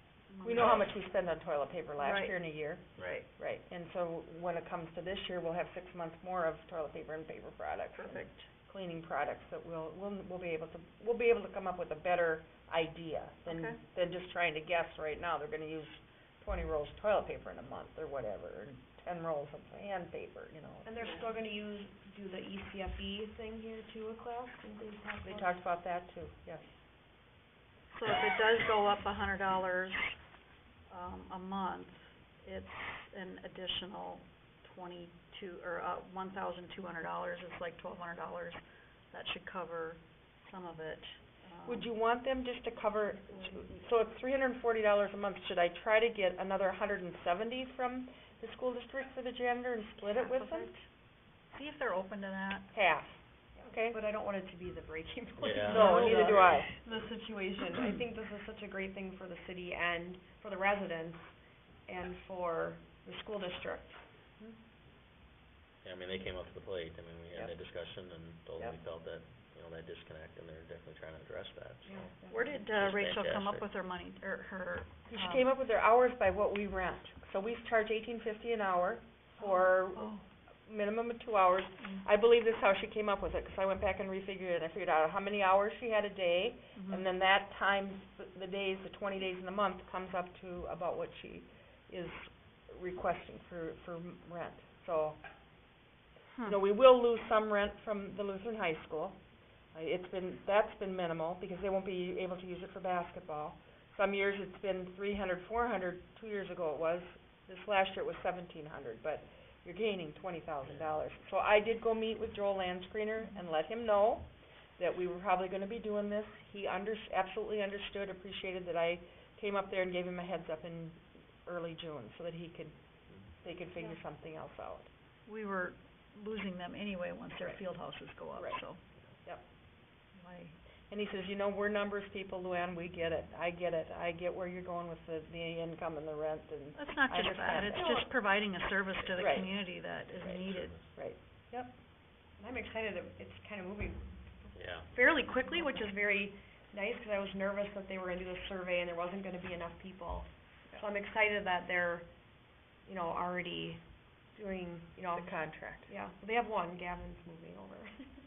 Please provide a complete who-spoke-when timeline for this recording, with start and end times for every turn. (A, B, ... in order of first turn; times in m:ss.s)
0:00.3-0:00.9 A
0:00.4-0:21.2 B
0:02.0-0:02.4 A
0:03.0-0:03.3 A
0:03.0-0:03.2 C
0:07.9-0:08.5 A
0:13.5-0:13.8 A
0:20.8-0:25.6 D
0:25.2-0:26.7 B
0:27.9-0:30.1 A
0:30.9-0:41.9 A
0:41.6-0:50.7 B
0:43.3-0:43.6 A
0:50.0-0:50.8 A
0:51.5-0:52.7 A
0:52.7-0:54.0 B
0:53.6-1:01.3 D
0:55.4-0:56.5 C
0:55.7-0:56.4 A
0:55.7-0:56.7 B
1:01.9-1:04.0 D
1:05.8-1:12.1 C
1:11.8-1:12.6 D
1:12.3-1:15.5 A
1:12.7-1:13.7 C
1:15.1-1:20.1 B
1:19.4-1:20.2 A
1:20.6-1:35.2 B
1:26.7-1:27.1 A
1:36.3-1:36.6 A
1:36.4-1:39.2 B
1:39.7-2:02.7 B
1:50.6-1:51.0 C
2:03.4-2:04.9 B
2:05.2-2:08.8 A
2:08.3-2:08.6 B
2:10.1-2:10.6 A
2:10.9-2:18.1 B
2:16.7-2:20.9 A
2:17.6-2:18.1 D
2:19.2-2:19.5 B
2:20.4-2:20.8 C
2:20.9-2:21.7 B
2:22.4-2:32.1 D
2:24.5-2:24.9 C
2:32.8-2:33.8 D
2:34.3-2:38.0 D
2:35.1-2:35.9 B